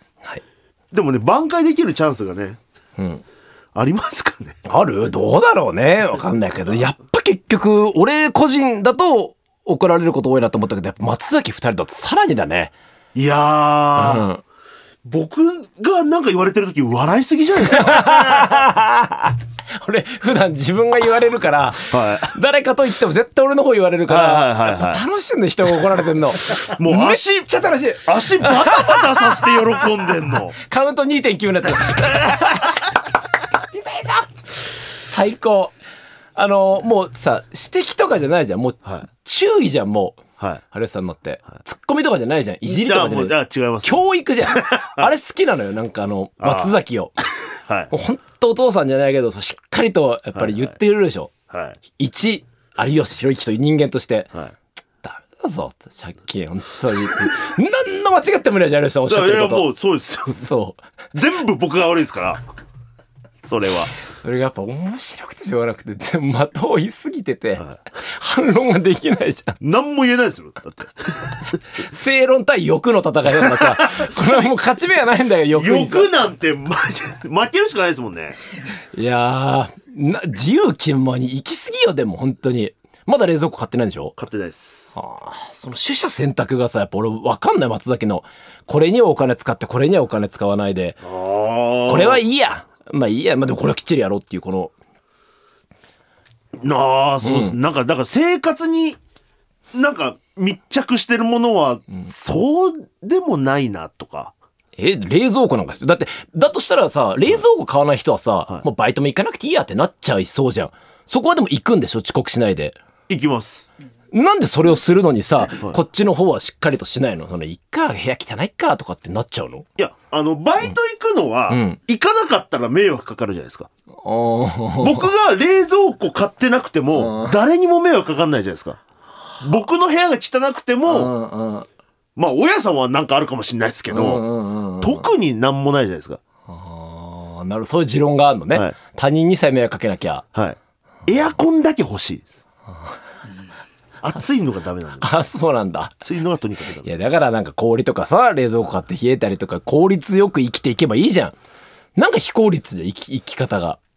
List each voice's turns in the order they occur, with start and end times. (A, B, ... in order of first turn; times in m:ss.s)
0:00.9-0:02.6 A
0:03.0-0:03.2 B
0:03.7-0:04.6 A
0:04.6-0:12.7 B
0:13.1-0:14.3 A
0:14.0-0:14.4 B
0:15.0-0:18.6 A
0:17.6-0:29.5 B
0:21.9-0:22.3 A
0:24.1-0:25.0 A
0:26.8-0:27.5 A
0:28.0-0:30.6 A
0:30.6-0:33.0 B
0:33.6-0:35.7 B
0:36.3-0:47.1 B
0:42.6-0:45.1 A
0:46.4-0:46.8 A
0:47.7-0:47.9 A
0:47.9-0:51.3 B
0:50.3-0:50.7 A
0:51.5-0:51.8 A
0:51.9-0:54.3 B
0:55.0-0:59.7 B
0:59.0-1:00.5 A
1:00.3-1:00.8 B
1:01.1-1:02.4 A
1:03.4-1:03.9 A
1:04.2-1:09.6 B
1:09.6-1:11.3 A
1:11.8-1:16.1 B
1:15.5-1:18.4 A
1:18.9-1:24.1 B
1:24.2-1:24.9 A
1:24.9-1:31.0 B
1:31.0-1:32.2 A
1:31.9-1:34.7 B
1:36.6-1:39.0 A
1:37.2-1:37.6 B
1:39.7-1:44.3 A
1:44.8-1:52.8 B
1:53.1-1:53.7 A
1:54.1-1:59.7 B
1:59.8-2:03.7 A
2:01.5-2:01.8 B
2:04.0-2:05.1 B
2:04.8-2:08.8 A
2:06.9-2:07.4 B
2:09.4-2:11.1 A
2:10.8-2:11.7 B
2:12.2-2:14.2 A
2:13.9-2:15.1 B
2:14.8-2:16.2 A
2:16.5-2:20.2 B
2:20.3-2:22.4 A
2:24.0-2:25.1 A
2:25.0-2:26.0 B
2:26.0-2:26.9 A
2:26.8-2:31.3 B
2:32.0-2:33.8 B